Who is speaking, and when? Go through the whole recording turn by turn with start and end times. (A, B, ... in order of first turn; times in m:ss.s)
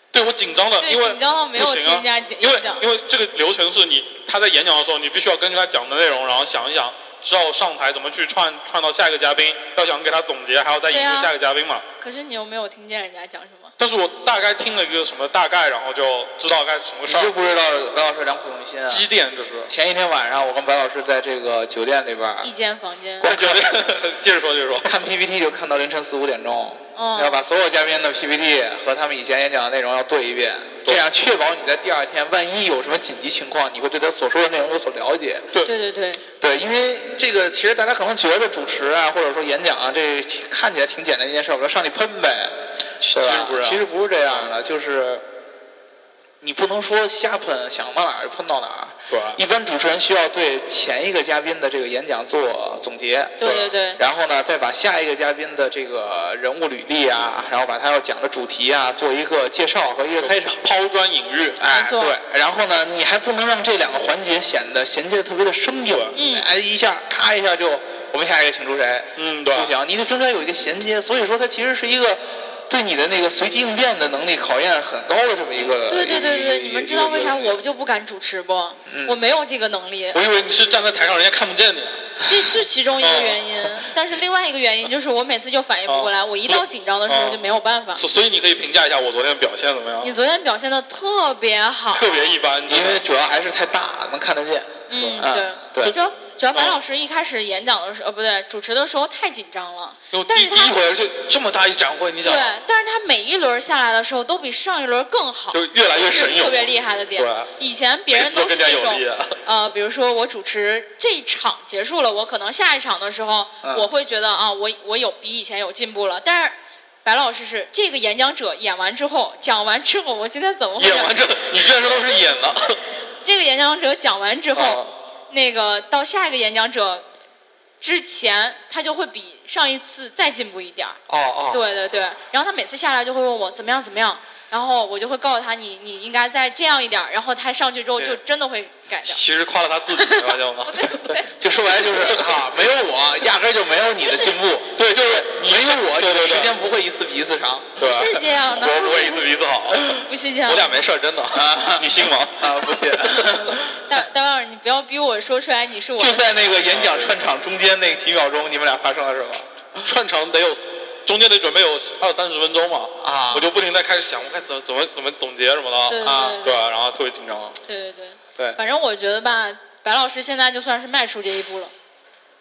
0:00.1-0:11.8 A
0:00.8-0:02.8 B
0:10.9-0:11.3 B
0:12.0-0:13.7 B
0:13.8-0:17.3 A
0:17.1-0:19.1 C
0:18.9-0:19.7 A
0:19.7-0:22.5 C
0:22.4-0:23.3 B
0:23.2-0:23.8 C
0:23.2-0:25.0 A
0:24.8-0:35.5 C
0:27.0-0:27.4 B
0:35.6-0:36.2 B
0:36.4-0:42.6 C
0:43.0-0:43.8 A
0:43.1-0:45.2 C
0:46.4-1:00.6 C
0:49.1-0:49.4 A
0:53.4-0:54.0 B
0:53.4-0:53.7 A
1:00.2-1:01.6 A
1:01.6-1:17.6 C
1:01.6-1:02.2 B
1:06.2-1:06.5 B
1:09.2-1:09.7 A
1:15.9-1:20.2 B
1:18.9-1:19.2 C
1:20.1-1:22.0 A
1:22.3-1:28.0 B
1:23.0-1:23.7 A
1:25.9-1:27.4 A
1:28.0-1:30.1 A
1:30.0-1:32.2 B
1:31.9-1:33.0 A
1:32.7-1:36.0 C
1:34.9-1:40.8 B
1:34.9-1:35.3 A
1:36.5-1:36.8 A
1:40.1-1:42.5 A
1:42.2-2:01.2 B
1:45.5-1:47.5 A
1:48.1-1:49.4 A
1:53.6-1:53.9 C
2:00.8-2:02.8 A
2:03.2-2:07.1 B
2:04.6-2:05.0 A
2:07.8-2:11.0 B
2:11.1-2:11.6 C
2:11.5-2:19.2 B
2:19.0-2:21.2 A
2:19.9-2:21.3 B
2:21.2-2:27.8 C
2:24.0-2:24.4 B
2:24.8-2:26.5 A
2:27.8-2:32.6 A
2:27.8-2:29.2 B
2:30.0-2:30.7 B
2:31.3-2:33.6 C
2:33.2-2:36.2 B
2:36.0-2:39.9 C
2:36.6-2:37.2 A
2:39.8-2:47.6 A
2:43.0-2:43.6 C
2:45.9-2:46.7 B
2:46.0-2:46.4 C
2:47.7-2:51.7 B